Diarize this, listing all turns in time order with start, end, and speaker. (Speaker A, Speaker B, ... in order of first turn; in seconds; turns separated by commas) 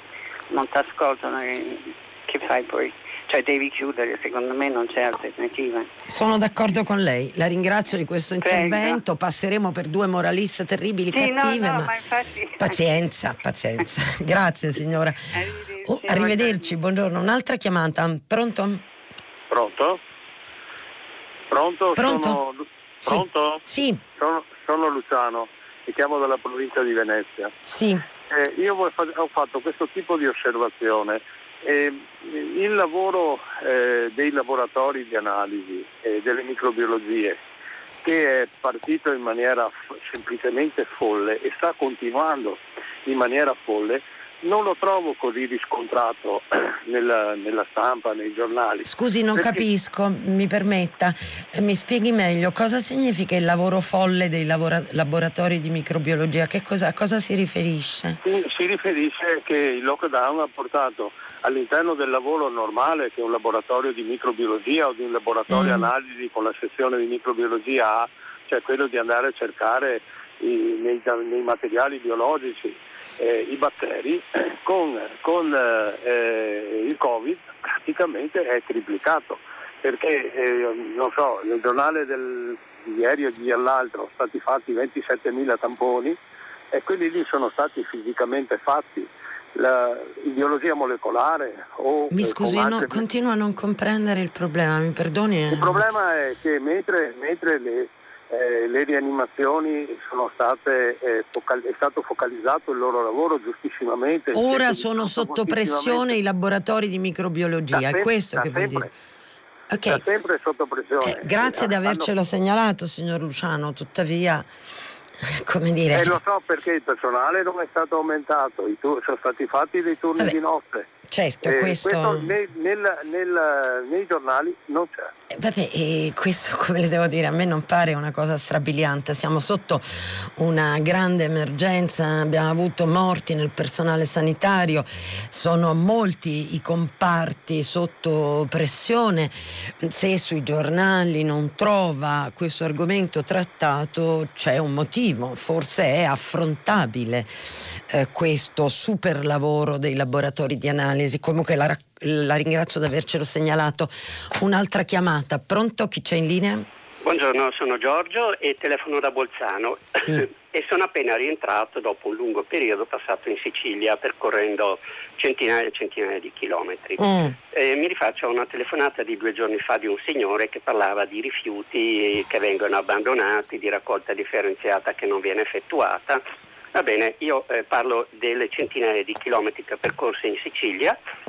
Speaker A: 0.5-5.9, Speaker B: 6.0-11.9, Speaker A: 8.4-9.0, Speaker A: 11.1-12.8, Speaker B: 12.6-15.2, Speaker A: 15.3-16.8, Speaker B: 15.8-18.8, Speaker C: 19.5-20.0, Speaker C: 21.5-23.6, Speaker B: 21.9-22.4, Speaker B: 23.0-24.0, Speaker C: 24.2-27.5, Speaker B: 27.6-28.0, Speaker C: 28.3-37.4, Speaker C: 38.0-49.6, Speaker B: 48.8-58.2, Speaker C: 58.2-86.2, Speaker B: 65.5-65.9, Speaker C: 86.7-93.0, Speaker B: 92.1-95.8, Speaker C: 95.5-106.2, Speaker B: 104.3-108.9, Speaker C: 107.7-108.9, Speaker B: 109.7-110.0, Speaker C: 109.9-112.1, Speaker B: 111.0-114.5, Speaker B: 115.3-116.2, Speaker C: 115.9-120.9, Speaker B: 121.1-122.3, Speaker C: 121.4-125.1, Speaker B: 125.3-156.7, Speaker D: 157.0-176.2, Speaker B: 159.9-160.2, Speaker B: 167.0-167.3, Speaker D: 176.7-181.0